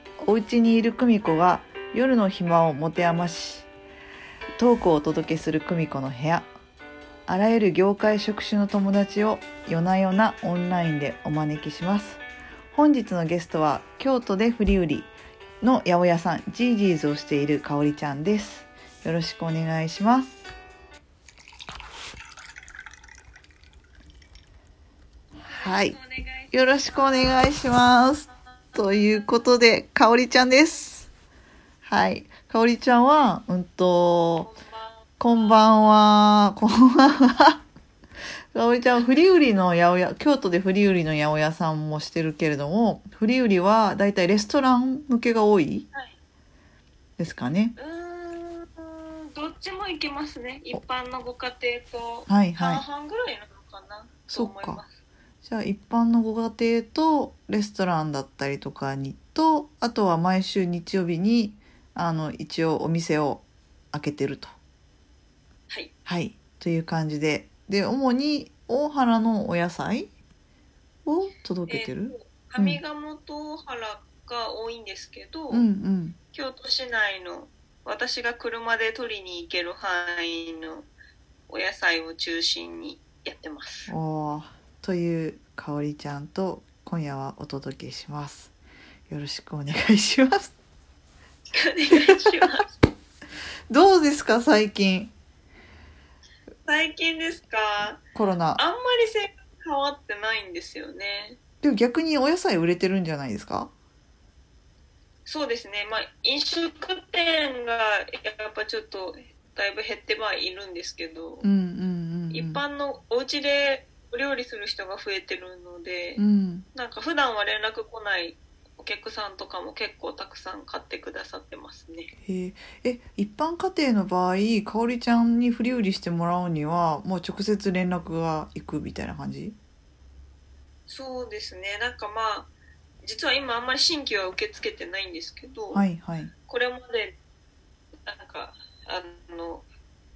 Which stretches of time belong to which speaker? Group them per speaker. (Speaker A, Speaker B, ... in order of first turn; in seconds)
Speaker A: 0.2-3.7, 4.6-6.5, 7.3-20.4, 25.4-25.9, 26.5-31.1, 31.8-34.5, 35.2-37.6, 38.5-45.9, 47.2-47.7, 52.3-52.8, 54.3-54.8, 55.4-64.5, 66.0-70.1, 71.0-72.8, 75.5-76.2, 83.9-88.5, 89.1-90.5, 91.9-92.5, 93.7-95.1, 98.1-98.6, 101.6-103.7, 111.4-112.6, 116.2-116.7, 122.2-129.6, 135.7-136.3
Speaker B: 25.4-27.4, 34.4-36.0, 47.8-54.9, 71.7-75.7, 76.3-80.9, 81.5-83.9, 91.5-92.7, 96.7-98.0, 98.6-101.4, 105.2-111.4, 112.3-116.2, 116.7-122.1, 130.9-132.5, 133.0-135.8, 136.5-137.2, 138.1-139.7